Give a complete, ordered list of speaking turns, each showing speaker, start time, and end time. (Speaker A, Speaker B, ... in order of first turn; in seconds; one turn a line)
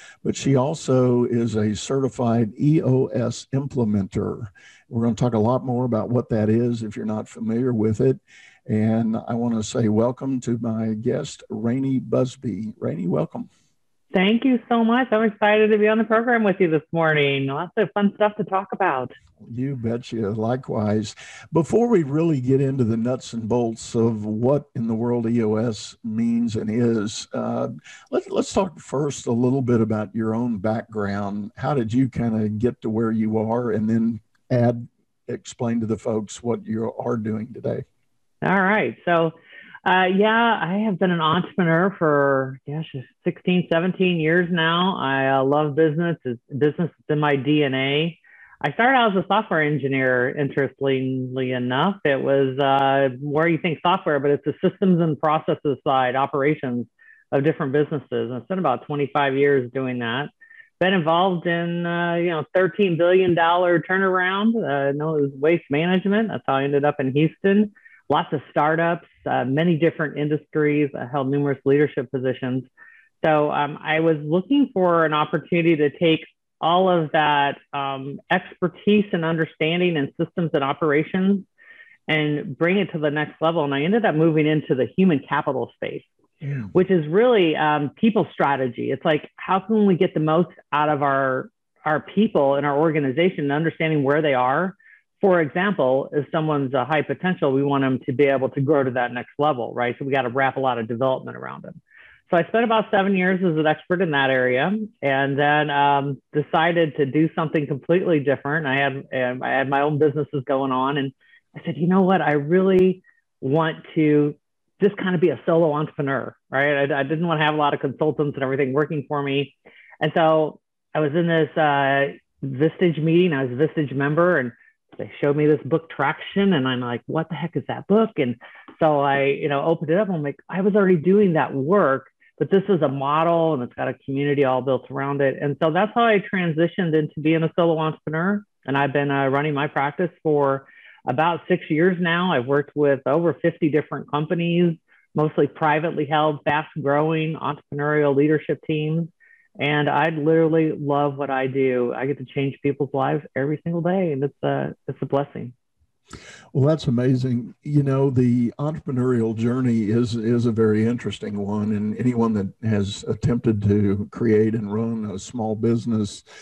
Speaker A: 0.2-13.5
Speaker B: 14.1-19.1
Speaker A: 19.4-37.8
Speaker B: 38.4-72.7
Speaker B: 73.2-81.5
Speaker B: 82.1-86.1
Speaker A: 86.4-86.7
Speaker B: 86.7-155.5
Speaker A: 156.5-166.2